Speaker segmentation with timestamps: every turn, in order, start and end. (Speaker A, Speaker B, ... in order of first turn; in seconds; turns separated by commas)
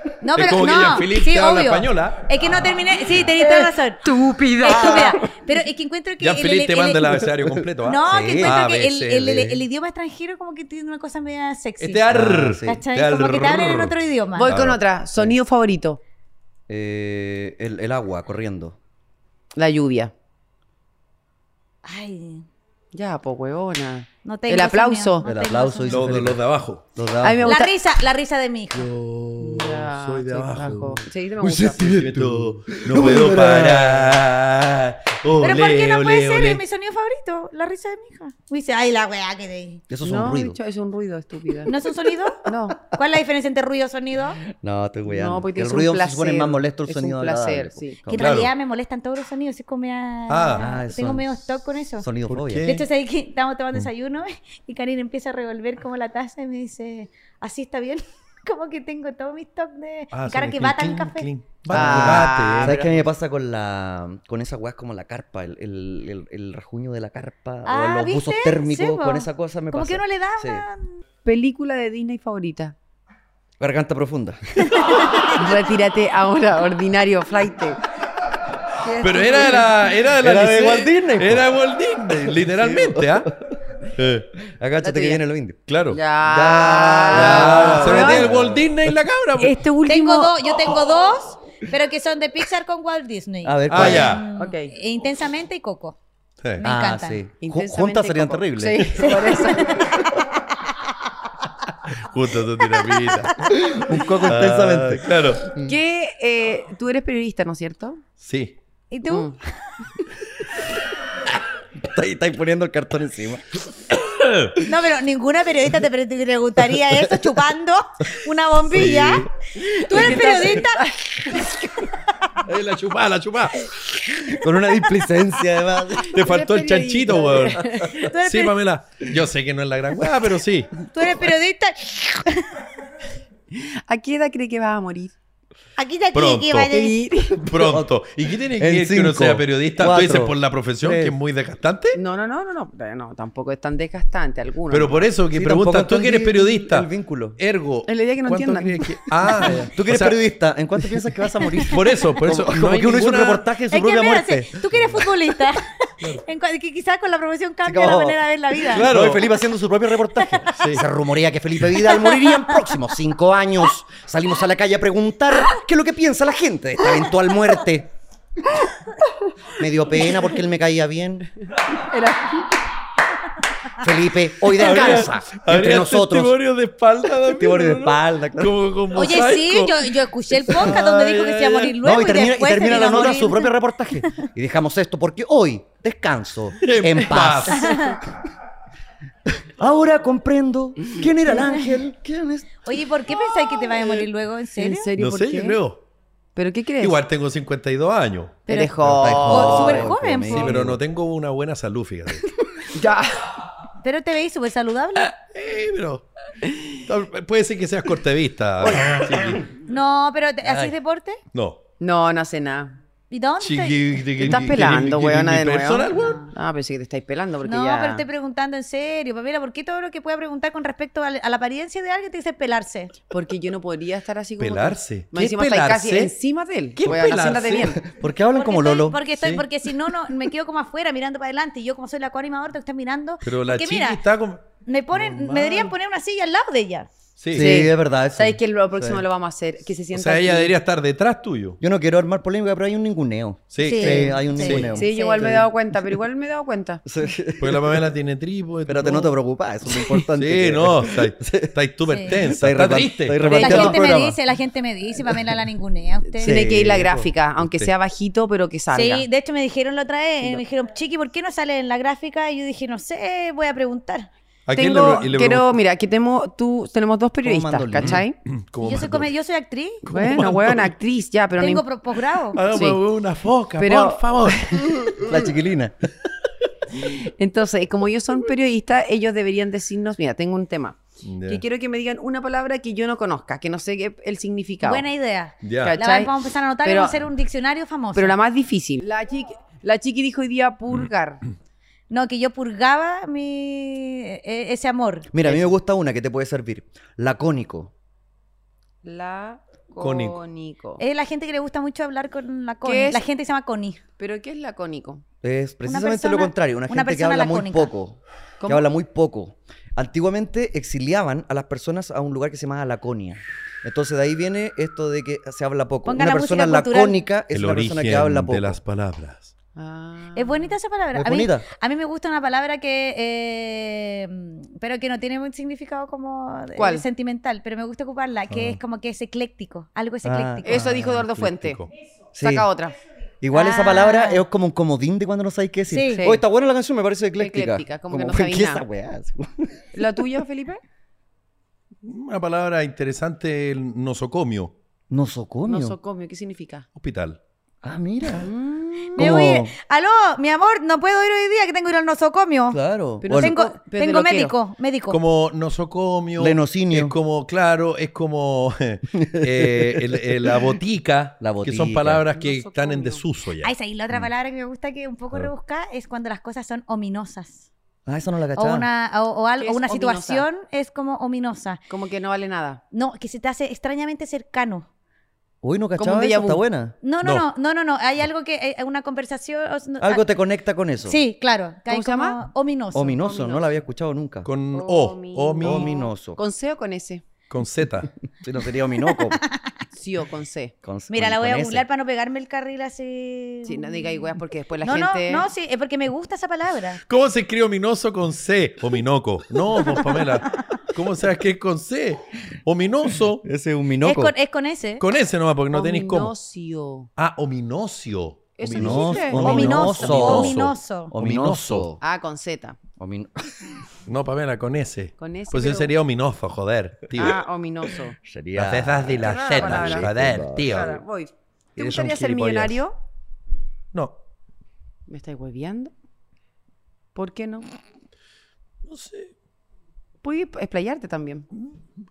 Speaker A: 0.2-7.2, Speaker B: 0.3-2.3, Speaker C: 3.4-5.3, Speaker B: 6.2-9.6, Speaker D: 7.4-8.6, Speaker A: 7.8-12.1, Speaker B: 11.8-13.9, Speaker D: 12.1-12.8, Speaker A: 12.7-14.6, Speaker C: 14.4-16.0, Speaker B: 14.5-14.8, Speaker D: 16.7-18.8, Speaker C: 19.6-20.1, Speaker A: 21.9-22.5, Speaker C: 22.9-25.2, Speaker A: 24.2-26.2, Speaker D: 25.2-26.4, Speaker B: 25.9-26.9, Speaker D: 26.9-27.6, Speaker C: 27.2-27.7, Speaker A: 27.4-28.9, Speaker B: 28.8-31.0, Speaker C: 29.4-31.9, Speaker D: 31.4-34.2, Speaker B: 31.6-36.6, Speaker A: 35.4-39.8, Speaker D: 39.9-40.6, Speaker C: 40.0-41.7, Speaker A: 41.7-44.4, Speaker C: 42.4-42.8, Speaker D: 44.5-48.4, Speaker C: 45.1-48.0, Speaker A: 48.1-52.1, Speaker B: 48.1-48.5, Speaker B: 50.3-50.7, Speaker D: 50.6-52.7, Speaker B: 52.3-52.9, Speaker A: 52.6-61.3, Speaker B: 60.1-62.8, Speaker D: 61.7-70.7, Speaker C: 61.7-63.0, Speaker A: 67.7-70.9, Speaker C: 71.2-72.8, Speaker D: 73.6-74.9, Speaker A: 74.8-75.3, Speaker C: 75.3-77.8, Speaker C: 78.8-79.8, Speaker B: 79.0-83.3, Speaker D: 80.2-81.5, Speaker D: 82.1-83.6, Speaker B: 84.0-84.3, Speaker D: 84.4-85.6, Speaker C: 84.8-85.2, Speaker B: 85.7-86.0, Speaker C: 85.9-88.3, Speaker D: 86.2-88.9, Speaker B: 86.7-89.6, Speaker C: 89.4-90.3, Speaker A: 89.8-96.0, Speaker D: 93.4-94.2, Speaker B: 93.7-94.3, Speaker C: 94.4-94.7, Speaker A: 96.6-97.2, Speaker D: 96.6-99.2, Speaker C: 97.4-100.1, Speaker A: 99.1-100.0, Speaker B: 101.9-103.6, Speaker D: 103.5-105.8, Speaker B: 104.2-105.5, Speaker C: 105.6-108.0, Speaker B: 108.2-108.5, Speaker A: 108.9-109.6, Speaker C: 109.1-109.3, Speaker D: 111.8-113.6, Speaker B: 113.9-114.5, Speaker A: 114.6-120.9, Speaker B: 118.7-119.3, Speaker C: 119.6-121.6, Speaker B: 122.4-124.3, Speaker D: 124.3-126.2, Speaker C: 126.0-128.1, Speaker B: 126.0-130.8, Speaker A: 128.0-128.6, Speaker A: 130.9-132.7, Speaker C: 133.5-135.2, Speaker A: 135.8-137.0, Speaker B: 136.1-136.7, Speaker C: 136.7-137.5, Speaker B: 137.4-142.0, Speaker D: 137.6-137.9, Speaker D: 138.6-141.2, Speaker C: 141.9-145.1, Speaker B: 144.7-150.2, Speaker D: 145.3-147.4, Speaker C: 147.9-149.6, Speaker D: 149.5-155.0, Speaker B: 151.6-153.4, Speaker A: 153.7-158.9, Speaker D: 157.7-167.9, Speaker B: 158.7-159.3, Speaker A: 160.2-160.4, Speaker B: 160.5-160.9, Speaker A: 161.9-162.6, Speaker D: 169.6-171.3, Speaker C: 171.9-172.4, Speaker D: 173.8-176.4, Speaker B: 174.5-181.8, Speaker D: 177.2-178.6, Speaker A: 178.9-183.5, Speaker D: 181.8-188.0, Speaker B: 186.6-187.8, Speaker A: 187.6-188.0, Speaker D: 189.6-192.6, Speaker A: 192.6-194.9, Speaker C: 194.6-195.6, Speaker B: 195.0-195.8, Speaker C: 196.4-197.0, Speaker B: 196.8-199.7, Speaker C: 198.5-199.9, Speaker A: 198.5-200.6, Speaker D: 198.8-200.8, Speaker B: 200.3-202.3, Speaker C: 202.7-203.2, Speaker A: 203.8-205.1, Speaker B: 205.3-206.1, Speaker B: 206.8-209.5, Speaker D: 208.6-209.4, Speaker A: 209.7-211.2, Speaker B: 210.4-210.7, Speaker B: 211.3-211.6, Speaker C: 211.8-212.8, Speaker A: 213.1-214.0, Speaker B: 213.4-216.2, Speaker C: 214.2-218.0, Speaker A: 215.9-216.3, Speaker A: 217.4-222.9, Speaker C: 223.1-227.8, Speaker B: 224.4-226.1, Speaker B: 226.8-227.8, Speaker D: 227.8-229.0, Speaker A: 228.3-234.0, Speaker B: 229.2-229.4, Speaker B: 233.2-235.7, Speaker A: 234.6-236.9, Speaker B: 237.2-237.7, Speaker D: 237.3-239.1, Speaker C: 237.3-240.5, Speaker B: 239.9-241.6, Speaker D: 241.6-245.5, Speaker B: 243.5-244.7, Speaker A: 243.6-245.4, Speaker C: 244.0-246.8, Speaker D: 246.9-247.9, Speaker B: 247.4-249.1, Speaker D: 248.7-251.5, Speaker B: 250.1-253.6, Speaker A: 251.9-252.2, Speaker D: 252.2-254.2, Speaker C: 253.3-253.9, Speaker A: 253.3-256.4, Speaker C: 256.2-259.1, Speaker D: 256.2-257.1, Speaker B: 257.4-257.7, Speaker A: 258.7-264.1, Speaker B: 264.5-265.6, Speaker C: 264.6-268.2, Speaker D: 267.2-268.0, Speaker B: 267.8-269.1, Speaker A: 268.6-269.9, Speaker B: 269.9-270.7, Speaker C: 269.9-271.6, Speaker A: 271.4-272.4, Speaker B: 272.3-275.1, Speaker C: 272.5-272.8, Speaker C: 273.6-274.8, Speaker D: 275.0-275.8, Speaker C: 276.7-284.9, Speaker B: 281.0-281.4, Speaker A: 284.6-288.2, Speaker B: 285.4-285.8, Speaker C: 285.6-286.1, Speaker C: 286.6-287.0, Speaker C: 287.9-291.2, Speaker A: 291.9-295.1, Speaker D: 295.1-297.7, Speaker C: 295.2-295.5, Speaker C: 298.8-300.8, Speaker B: 299.8-300.2, Speaker A: 300.8-303.8, Speaker C: 302.6-303.0, Speaker C: 304.0-305.0, Speaker D: 305.2-318.6, Speaker A: 305.6-307.7, Speaker C: 308.4-308.7, Speaker A: 315.9-317.0, Speaker B: 317.3-319.3, Speaker C: 319.6-320.6, Speaker A: 320.1-330.6, Speaker D: 320.9-321.5, Speaker C: 326.6-326.9, Speaker D: 330.0-331.0, Speaker C: 330.4-331.6, Speaker B: 330.6-331.7, Speaker D: 332.1-332.5, Speaker C: 332.2-332.8, Speaker D: 333.2-339.8, Speaker A: 333.3-334.2, Speaker A: 335.7-336.1, Speaker C: 337.2-338.6, Speaker C: 339.7-340.6, Speaker B: 341.8-344.5, Speaker D: 344.9-345.8, Speaker C: 345.5-346.7, Speaker B: 346.8-347.2, Speaker D: 347.6-348.3, Speaker C: 348.1-349.2, Speaker D: 348.9-349.5, Speaker A: 349.0-352.6, Speaker D: 352.5-353.4, Speaker C: 353.0-354.3, Speaker A: 353.1-355.0, Speaker B: 354.9-363.5, Speaker D: 356.2-356.9, Speaker D: 359.0-360.5, Speaker D: 361.2-362.0, Speaker C: 362.1-363.0, Speaker A: 363.4-367.5, Speaker D: 367.9-368.7, Speaker A: 368.4-371.6, Speaker C: 369.4-370.3, Speaker C: 371.7-372.6, Speaker A: 372.7-374.7, Speaker D: 375.4-376.8, Speaker C: 375.8-376.4, Speaker A: 376.8-380.0, Speaker D: 379.8-381.0, Speaker A: 380.9-383.0, Speaker C: 381.7-382.2, Speaker D: 382.7-384.3, Speaker C: 383.0-383.4, Speaker B: 384.2-385.8, Speaker C: 384.5-387.0, Speaker D: 385.4-386.2, Speaker B: 387.3-387.9, Speaker D: 388.1-389.2, Speaker A: 389.1-389.6, Speaker C: 389.7-390.5, Speaker D: 390.6-391.6, Speaker A: 390.9-396.8, Speaker C: 393.4-395.3, Speaker B: 396.9-403.2, Speaker D: 403.2-404.1, Speaker A: 403.8-404.9, Speaker B: 404.8-406.1, Speaker C: 405.5-406.9, Speaker B: 407.0-411.7, Speaker C: 408.4-409.7, Speaker D: 408.5-411.8, Speaker A: 409.1-410.9, Speaker C: 411.8-412.6, Speaker D: 412.8-413.6, Speaker B: 413.9-417.2, Speaker C: 415.0-415.7, Speaker C: 417.0-418.0, Speaker D: 418.0-420.7, Speaker B: 418.4-420.8, Speaker C: 419.0-419.9, Speaker C: 420.4-422.8, Speaker B: 421.6-422.6, Speaker C: 424.9-425.7, Speaker C: 426.9-427.5, Speaker B: 428.6-429.1, Speaker C: 430.0-431.3, Speaker B: 431.3-431.6